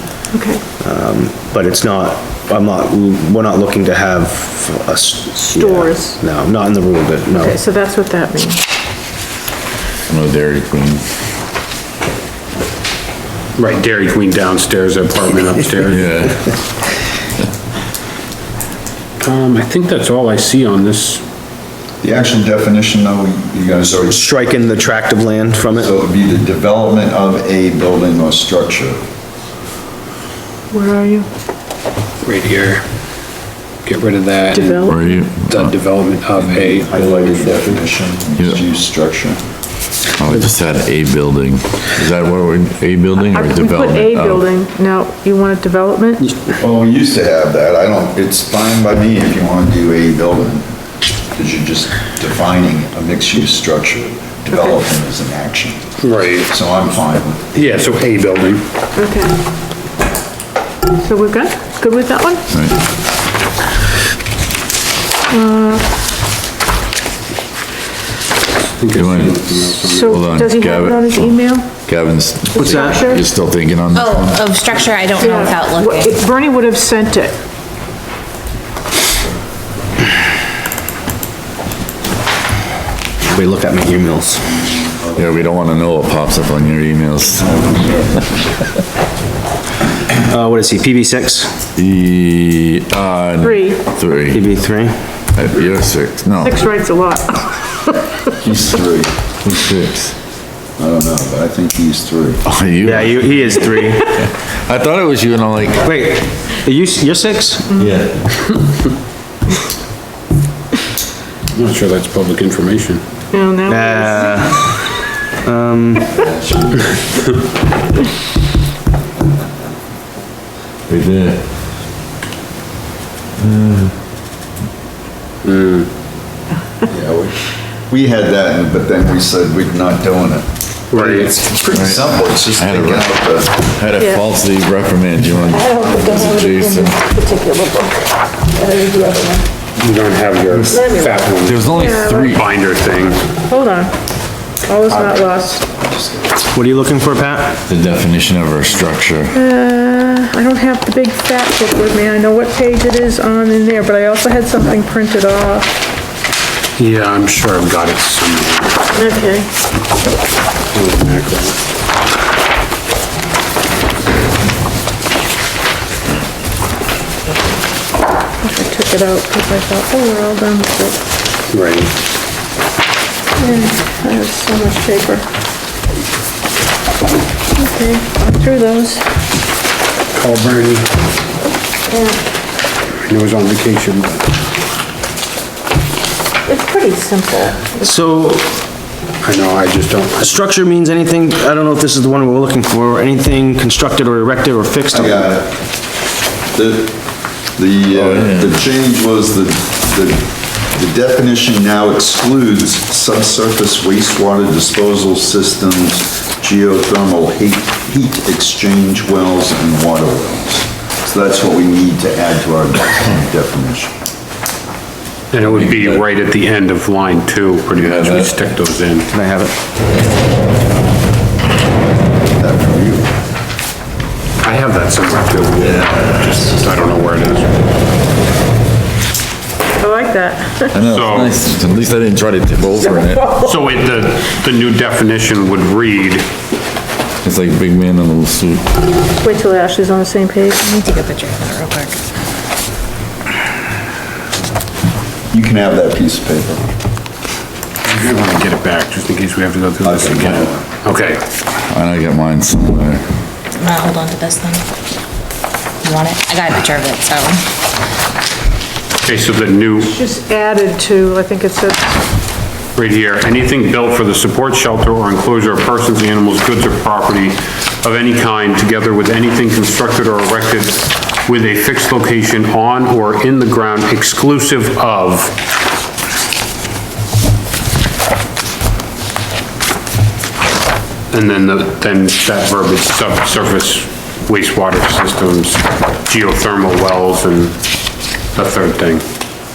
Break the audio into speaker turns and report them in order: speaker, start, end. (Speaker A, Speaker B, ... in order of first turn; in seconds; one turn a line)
Speaker A: 0.3-0.6
Speaker B: 0.8-7.6
Speaker A: 5.5-6.2
Speaker A: 7.4-8.6
Speaker C: 10.1-11.0
Speaker D: 13.5-16.1
Speaker C: 15.9-16.5
Speaker D: 19.2-21.2
Speaker E: 22.0-24.4
Speaker B: 23.9-25.9
Speaker E: 25.8-29.0
Speaker A: 30.7-31.3
Speaker D: 32.2-32.8
Speaker D: 33.8-37.8
Speaker A: 34.5-35.2
Speaker C: 34.8-35.7
Speaker E: 36.6-39.4
Speaker C: 40.2-44.5
Speaker A: 43.3-46.3
Speaker E: 46.6-50.7
Speaker E: 51.3-57.5
Speaker A: 54.5-54.8
Speaker D: 56.0-56.5
Speaker D: 57.5-58.6
Speaker A: 59.0-59.3
Speaker A: 61.0-62.5
Speaker C: 62.5-62.8
Speaker A: 65.3-65.8
Speaker D: 68.8-70.2
Speaker C: 68.9-69.5
Speaker A: 69.8-71.7
Speaker C: 70.1-74.4
Speaker A: 72.5-73.2
Speaker B: 72.6-73.0
Speaker F: 73.9-76.2
Speaker A: 75.2-77.3
Speaker B: 83.2-84.7
Speaker C: 85.1-88.1
Speaker B: 90.2-91.6
Speaker C: 91.8-94.4
Speaker A: 93.4-93.8
Speaker B: 94.3-94.9
Speaker C: 95.3-96.6
Speaker A: 96.4-98.3
Speaker E: 98.4-99.1
Speaker C: 99.4-100.1
Speaker E: 100.8-102.4
Speaker C: 102.4-105.9
Speaker B: 102.8-104.1
Speaker B: 105.8-107.7
Speaker C: 107.8-108.2
Speaker D: 111.5-113.0
Speaker A: 113.3-114.5
Speaker B: 113.7-114.8
Speaker B: 115.4-116.2
Speaker C: 120.9-121.4
Speaker C: 123.4-123.9
Speaker D: 125.4-125.9
Speaker E: 126.9-133.5
Speaker D: 130.9-131.4
Speaker B: 131.0-131.8
Speaker C: 131.7-137.0
Speaker A: 133.9-134.2
Speaker A: 135.5-139.5
Speaker D: 139.8-141.7
Speaker C: 140.5-142.4
Speaker A: 140.7-142.4
Speaker D: 142.3-143.2
Speaker A: 143.5-143.9
Speaker A: 144.6-145.6
Speaker B: 146.5-147.6
Speaker C: 147.7-149.4
Speaker A: 149.3-155.7
Speaker D: 156.8-158.9
Speaker A: 158.9-159.5
Speaker D: 160.7-161.6
Speaker A: 168.4-171.0
Speaker D: 171.5-171.9
Speaker A: 173.4-175.2
Speaker A: 177.6-179.1
Speaker D: 180.1-180.9
Speaker A: 181.9-182.2
Speaker D: 183.0-184.3
Speaker A: 186.5-187.7
Speaker B: 187.7-188.5
Speaker D: 189.2-190.4
Speaker B: 190.2-195.3
Speaker E: 194.9-195.6
Speaker E: 196.5-213.9
Speaker C: 197.9-198.5
Speaker D: 215.3-219.1
Speaker C: 215.4-216.0
Speaker C: 217.7-218.3
Speaker B: 219.1-219.5
Speaker E: 222.4-223.1
Speaker D: 224.4-227.7
Speaker C: 225.6-226.2
Speaker A: 229.8-230.8
Speaker C: 230.7-233.4
Speaker D: 230.8-231.4
Speaker A: 232.8-233.6
Speaker D: 233.4-236.3
Speaker C: 237.2-238.7
Speaker A: 239.2-241.0
Speaker F: 240.8-242.0
Speaker E: 245.3-246.6
Speaker D: 247.8-251.2
Speaker E: 249.8-250.6
Speaker C: 251.7-253.0
Speaker F: 253.6-254.6
Speaker F: 255.8-257.4
Speaker D: 259.0-259.9
Speaker A: 259.9-261.9
Speaker D: 262.8-275.4
Speaker D: 281.1-287.6
Speaker D: 288.3-289.0